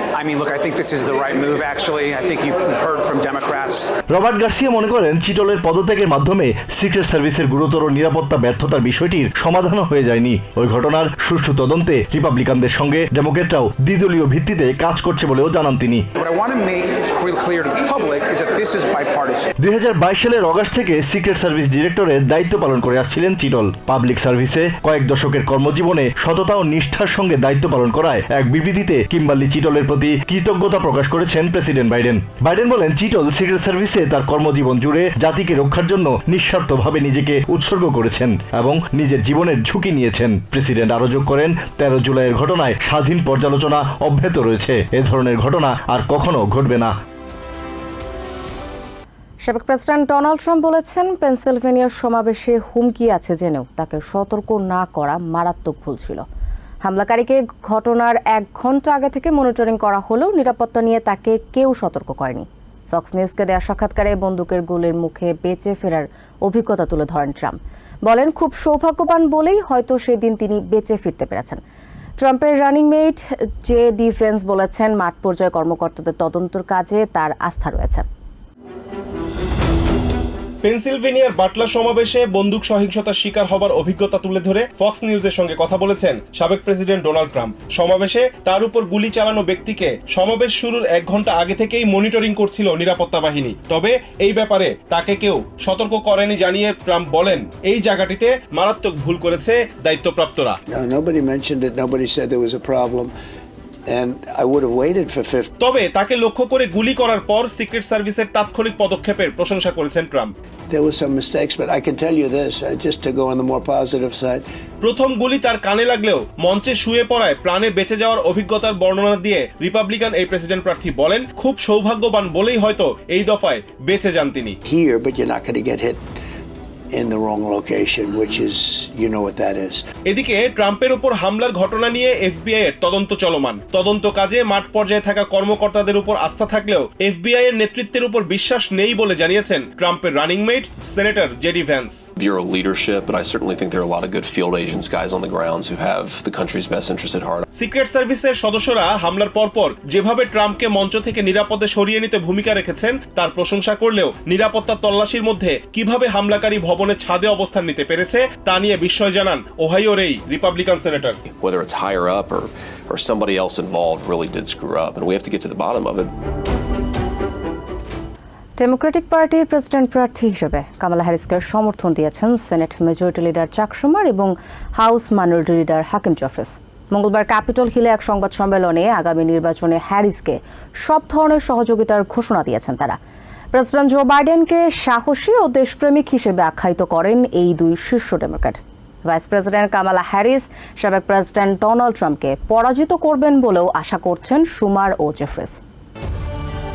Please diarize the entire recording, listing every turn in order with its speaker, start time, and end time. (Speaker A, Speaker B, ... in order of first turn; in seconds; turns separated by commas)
Speaker A: 0.2-3.9, Speaker B: 4.1-16.0, Speaker A: 16.2-19.5, Speaker B: 19.6-46.9, Speaker C: 49.4-56.2, Speaker C: 56.9-71.6, Speaker C: 72.2-78.1, Speaker D: 80.6-100.6, Speaker E: 100.7-103.1, Speaker E: 103.9-105.5, Speaker D: 105.6-110.3, Speaker E: 110.7-114.4, Speaker D: 114.8-124.6, Speaker E: 124.6-126.0, Speaker E: 126.9-129.8, Speaker D: 130.1-142.0, Speaker F: 142.2-147.4, Speaker D: 147.6-161.2, Speaker F: 161.3-166.1, Speaker C: 168.6-183.0, Speaker C: 183.5-195.6